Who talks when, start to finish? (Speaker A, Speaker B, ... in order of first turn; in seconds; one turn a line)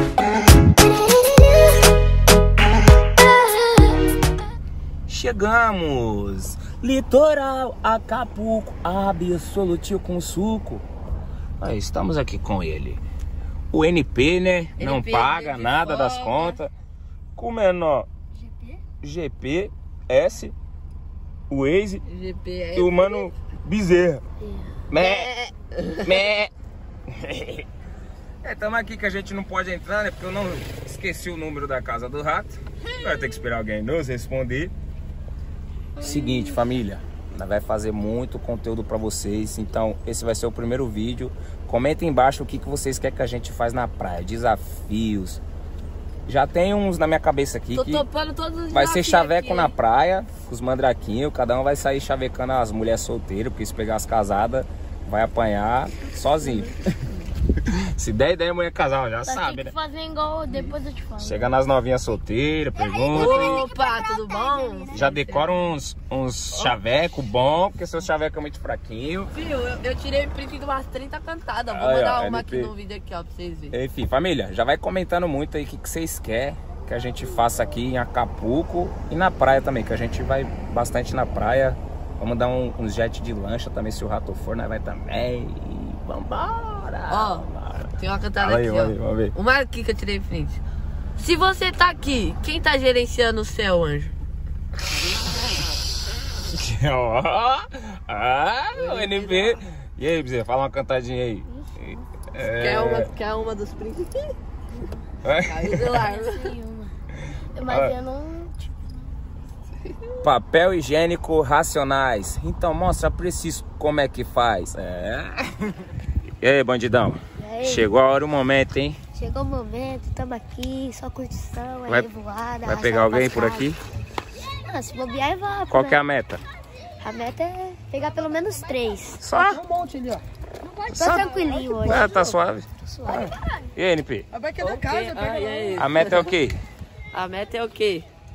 Speaker A: 1.1-1.6
Speaker B: 5.1-10.8
Speaker B: 11.6-13.0
Speaker B: 13.7-16.7
Speaker C: 14.8-16.6
Speaker B: 17.4-18.1
Speaker B: 19.0-20.5
Speaker B: 21.5-22.0
Speaker C: 22.0-23.2
Speaker B: 22.7-24.2
Speaker B: 24.9-25.3
Speaker C: 24.9-26.0
Speaker B: 26.0-26.5
Speaker B: 27.1-27.7
Speaker B: 28.4-34.7
Speaker B: 36.0-45.4
Speaker B: 46.2-48.0
Speaker C: 47.7-49.7
Speaker B: 48.7-56.8
Speaker B: 57.7-59.7
Speaker A: 59.3-61.4
Speaker B: 61.2-63.7
Speaker A: 62.7-65.3
Speaker C: 63.1-65.5
Speaker B: 64.9-69.3
Speaker C: 69.3-73.7
Speaker B: 71.7-72.7
Speaker B: 73.7-89.3
Speaker C: 87.1-87.5
Speaker C: 88.0-90.6
Speaker C: 91.2-94.1
Speaker B: 96.4-103.1
Speaker C: 98.7-99.6
Speaker C: 102.4-104.3
Speaker B: 105.2-106.0
Speaker C: 105.4-106.5
Speaker A: 106.0-106.9
Speaker A: 107.5-108.7
Speaker B: 107.7-108.0
Speaker B: 110.2-115.7
Speaker B: 116.4-119.0
Speaker A: 117.4-117.9
Speaker A: 119.1-123.7
Speaker B: 122.6-123.8
Speaker A: 124.5-126.0
Speaker B: 125.7-126.4
Speaker A: 127.0-129.2
Speaker B: 129.2-129.6
Speaker D: 129.3-130.2
Speaker A: 130.9-132.4
Speaker B: 130.9-134.3
Speaker A: 132.9-133.3
Speaker D: 134.3-135.8
Speaker C: 134.6-136.3
Speaker B: 135.7-136.6
Speaker C: 137.1-138.1